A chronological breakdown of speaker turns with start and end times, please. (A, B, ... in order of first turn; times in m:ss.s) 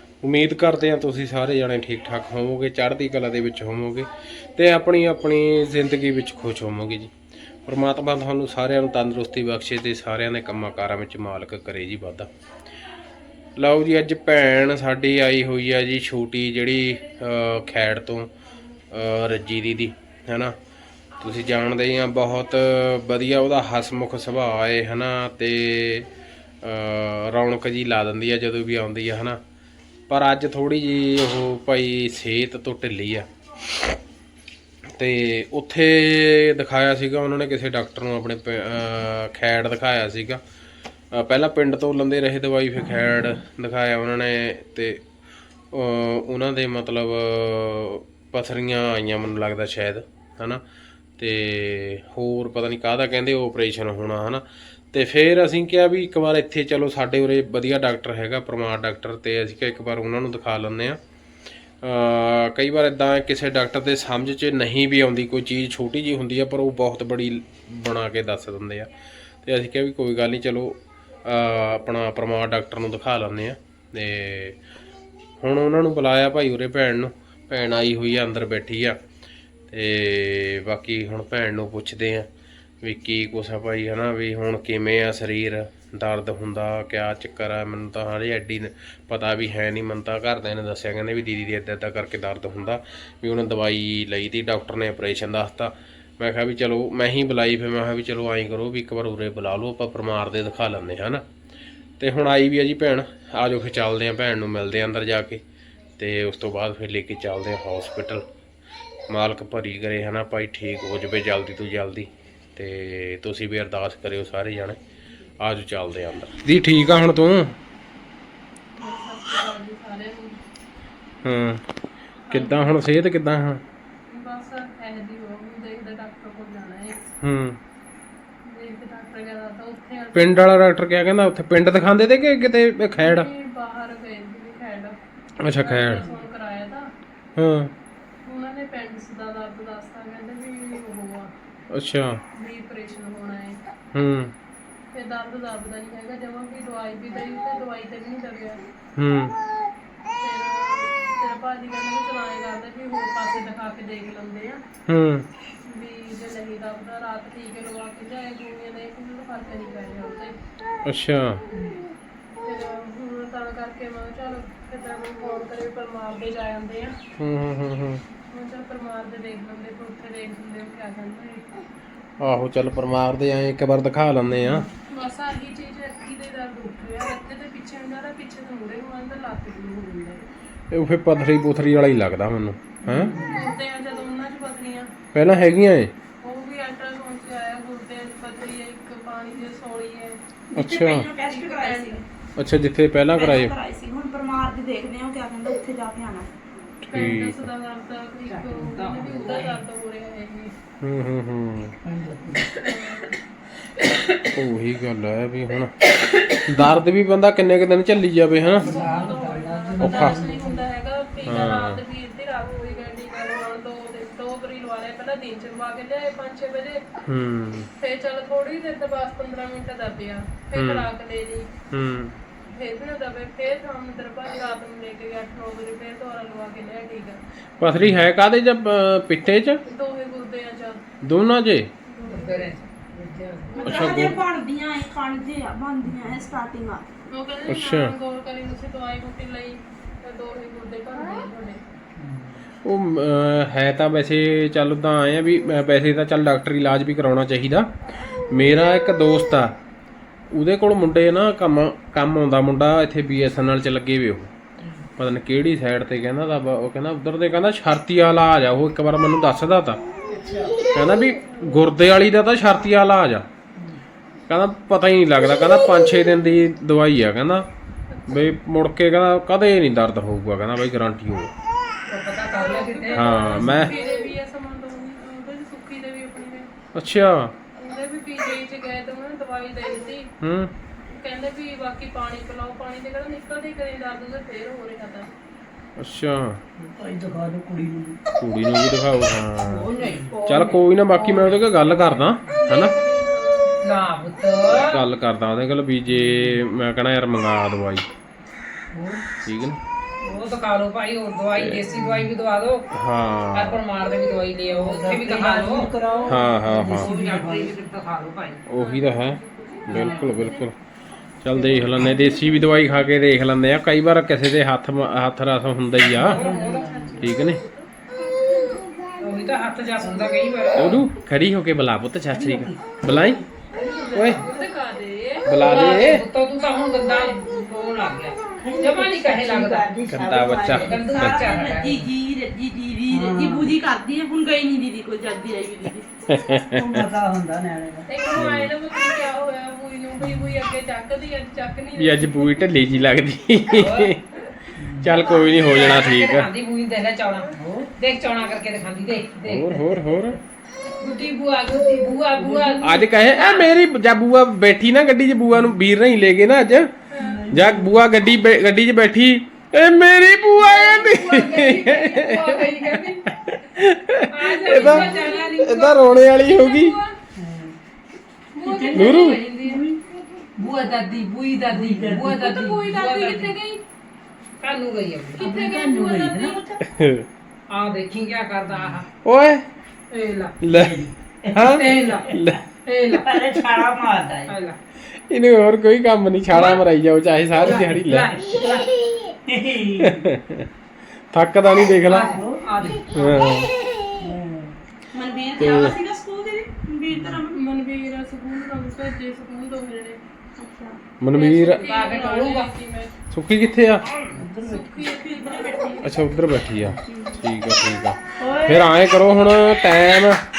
0:00.2-0:07.1 A
0:07.7-0:12.3 A
0:13.6-0:18.3 A
0:18.9-0:20.5 A
0:21.2-0:26.1 A
0:26.6-0:29.4 A
0:30.1-0:33.3 A
0:35.0-0:40.4 A
0:41.1-0:45.0 A
0:45.7-0:50.6 A
0:51.2-1:01.0 A
1:01.8-1:08.9 A
1:09.4-1:14.6 A
1:15.4-1:19.0 A
1:19.7-1:22.3 A
1:22.8-1:41.2 A
1:42.0-1:45.4 A
1:46.0-1:48.2 A
1:49.1-1:54.8 A
1:55.4-1:57.6 A
1:58.8-2:00.4 B
2:01.2-2:01.6 A
2:02.3-2:03.6 A
2:02.4-2:02.7 B
2:04.1-2:07.2 B
2:07.2-2:07.6 A
2:08.4-2:10.6 B
2:10.1-2:13.3 A
2:13.0-2:16.9 B
2:15.4-2:16.1 A
2:17.4-2:17.7 A
2:18.2-2:21.3 B
2:21.7-2:22.2 A
2:22.3-2:23.6 B
2:23.9-2:24.3 A
2:24.9-2:28.6 B
2:29.0-2:29.3 A
2:30.2-2:34.6 B
2:34.9-2:35.3 A
2:35.6-2:40.3 B
2:40.8-2:41.4 A
2:42.4-2:47.0 B
2:47.2-2:48.0 A
2:48.3-2:51.5 B
2:52.2-2:54.6 A
2:54.8-3:00.2 B
3:00.7-3:03.2 A
3:02.8-3:03.5 C
3:03.2-3:04.9 B
3:05.1-3:05.9 A
3:06.2-3:10.2 B
3:10.5-3:11.1 A
3:10.6-3:12.0 D
3:11.2-3:12.0 B
3:12.4-3:13.5 A
3:13.1-3:16.3 D
3:16.8-3:17.4 A
3:16.9-3:20.5 B
3:18.4-3:19.6 C
3:20.8-3:21.8 A
3:21.8-3:22.5 E
3:22.6-3:23.2 B
3:24.3-3:25.8 A
3:26.3-3:28.7 A
3:28.4-3:36.8 B
3:28.5-3:30.7 E
3:29.8-3:30.2 A
3:31.2-3:31.8 A
3:37.0-3:37.7 A
3:37.8-3:41.5 B
3:40.5-3:40.9 A
3:41.7-3:42.2 A
3:42.5-3:47.2 B
3:47.6-3:49.6 A
3:49.7-3:50.8 B
3:51.0-3:51.7 A
3:51.9-3:52.6 B
3:52.0-3:54.0 C
3:53.5-3:56.8 D
3:53.6-3:54.2 A
3:57.1-4:01.6 B
3:57.5-3:57.9 A
4:02.6-4:09.6 A
4:10.3-4:14.3 A
4:14.6-4:14.8 C
4:15.0-4:19.8 A
4:20.1-4:20.6 C
4:20.7-4:23.3 A
4:21.3-4:21.6 B
4:23.6-4:23.8 C
4:24.3-4:27.5 A
4:27.9-4:28.3 B
4:28.1-4:31.3 A
4:31.9-4:33.7 C
4:32.3-4:36.5 B
4:32.9-4:33.8 A
4:36.8-4:37.3 A
4:37.6-4:40.1 B
4:40.2-4:40.5 A
4:40.9-4:45.1 B
4:45.8-4:46.4 A
4:46.6-4:48.0 E
4:48.2-4:52.7 A
4:49.5-4:51.4 C
4:52.4-4:53.6 B
4:53.6-4:54.8 C
4:54.5-4:57.9 A
4:58.7-4:59.0 E
4:59.2-4:59.6 A
5:00.0-5:02.7 C
5:01.3-5:01.7 A
5:01.8-5:02.1 E
5:02.7-5:03.6 A
5:03.3-5:05.7 C
5:04.5-5:07.5 E
5:06.1-5:06.9 A
5:06.8-5:08.4 C
5:08.5-5:10.6 A
5:08.6-5:09.6 B
5:09.7-5:10.2 C
5:10.1-5:10.4 B
5:11.2-5:16.2 A
5:11.6-5:12.1 E
5:15.9-5:17.0 E
5:16.0-5:16.8 C
5:16.6-5:17.7 B
5:17.0-5:17.4 A
5:19.0-5:20.8 C
5:19.8-5:20.1 E
5:20.6-5:23.2 A
5:22.2-5:22.8 E
5:23.6-5:24.5 C
5:23.7-5:25.3 B
5:23.9-5:24.2 A
5:25.3-5:26.0 A
5:25.4-5:29.7 C
5:26.9-5:27.2 B
5:28.4-5:31.0 E
5:29.9-5:31.3 A
5:30.5-5:31.9 C
5:30.8-5:35.9 D
5:32.9-5:33.5 E
5:36.1-5:36.8 A
5:36.5-5:37.9 E
5:37.9-5:42.5 B
5:38.2-5:38.5 A
5:40.0-5:40.4 E
5:41.8-5:44.0 A
5:43.5-5:44.0 C
5:44.6-5:44.9 E
5:44.8-5:46.3 A
5:45.2-5:49.6 C
5:47.3-5:47.7 E
5:49.2-5:50.2 A
5:50.8-5:53.5 C
5:52.2-5:52.6 E
5:52.6-5:56.7 A
5:56.9-5:57.2 B
5:57.0-5:57.8 E
5:57.3-6:06.8 A
6:00.4-6:03.1 C
6:04.0-6:06.7 C
6:05.1-6:05.7 B
6:06.4-6:06.9 B
6:07.2-6:07.5 E
6:08.4-6:09.6 C
6:08.4-6:09.8 E
6:08.7-6:09.2 A
6:10.4-6:13.4 C
6:11.5-6:12.3 E
6:12.2-6:13.6 B
6:12.8-6:13.2 D
6:14.4-6:16.0 C
6:15.2-6:16.4 B
6:15.2-6:16.4 E
6:16.7-6:17.1 A
6:17.5-6:18.9 C
6:18.5-6:18.8 E
6:19.0-6:19.4 A
6:19.9-6:20.4 C
6:20.4-6:22.4 A
6:20.5-6:21.5 E
6:21.5-6:22.2 C
6:22.7-6:23.2 C
6:23.0-6:24.3 E
6:24.3-6:24.6 C
6:25.1-6:28.2 A
6:26.3-6:26.6 C
6:27.4-6:28.7 C
6:29.3-6:30.0 E
6:29.8-6:30.5 A
6:31.1-6:32.2 A
6:31.9-6:33.3 C
6:32.1-6:32.8 E
6:32.9-6:33.5 A
6:34.0-6:34.5 E
6:34.9-6:37.4 D
6:35.4-6:35.8 A
6:37.3-6:40.0 B
6:40.4-6:40.8 D
6:41.0-6:41.7 A
6:41.1-6:42.9 B
6:41.6-6:42.5 C
6:43.1-6:43.9 A
6:44.1-6:44.8 E
6:44.4-6:45.9 B
6:44.8-6:45.8 D
6:45.8-6:50.2 A
6:46.9-6:47.2 D
6:48.2-6:48.7 D